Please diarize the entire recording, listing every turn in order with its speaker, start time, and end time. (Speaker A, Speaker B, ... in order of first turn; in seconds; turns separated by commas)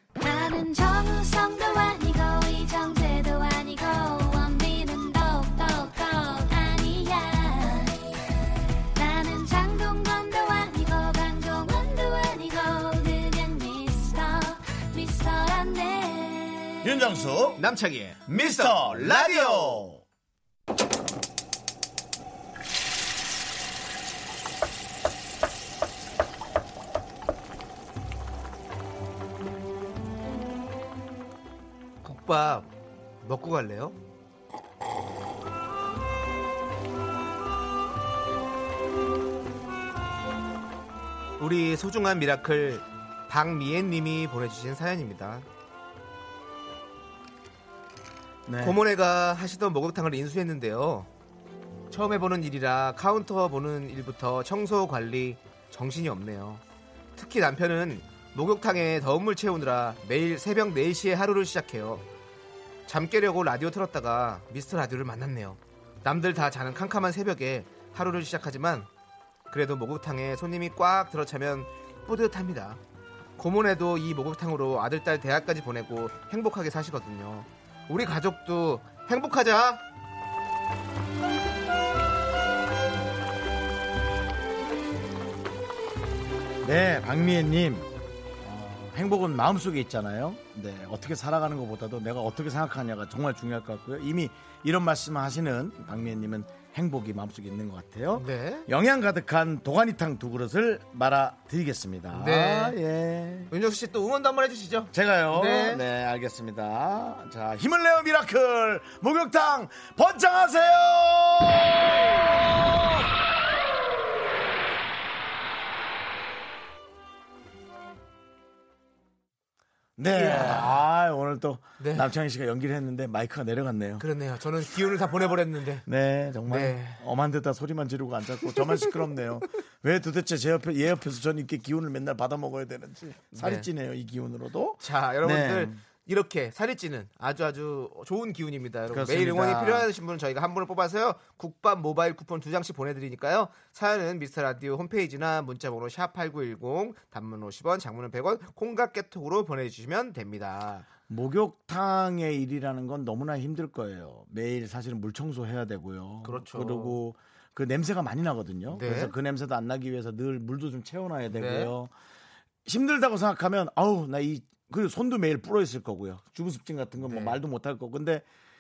Speaker A: 0.2-8.1, Speaker A: 8.9-16.9, Speaker B: 16.8-17.6, Speaker C: 17.6-19.9, Speaker B: 18.3-20.0, Speaker C: 32.0-32.7, Speaker C: 33.2-34.0, Speaker C: 41.4-45.5, Speaker B: 48.5-48.8, Speaker C: 48.6-51.1, Speaker C: 51.9-56.6, Speaker C: 57.2-62.0, Speaker C: 62.9-68.9, Speaker C: 69.5-72.8, Speaker C: 73.4-79.8, Speaker B: 86.6-87.9, Speaker B: 88.4-103.5, Speaker C: 98.2-98.7, Speaker C: 102.1-102.8, Speaker C: 103.5-105.8, Speaker B: 104.9-112.2, Speaker B: 120.0-124.1, Speaker C: 120.1-120.8, Speaker C: 121.8-122.1, Speaker C: 124.0-125.9, Speaker B: 125.9-135.8, Speaker C: 126.5-127.0, Speaker C: 133.3-133.7, Speaker C: 134.8-150.9, Speaker B: 138.9-139.9, Speaker B: 151.1-161.9, Speaker C: 156.2-157.0, Speaker C: 158.7-159.1, Speaker C: 161.3-161.7, Speaker B: 162.7-168.2, Speaker C: 167.0-167.4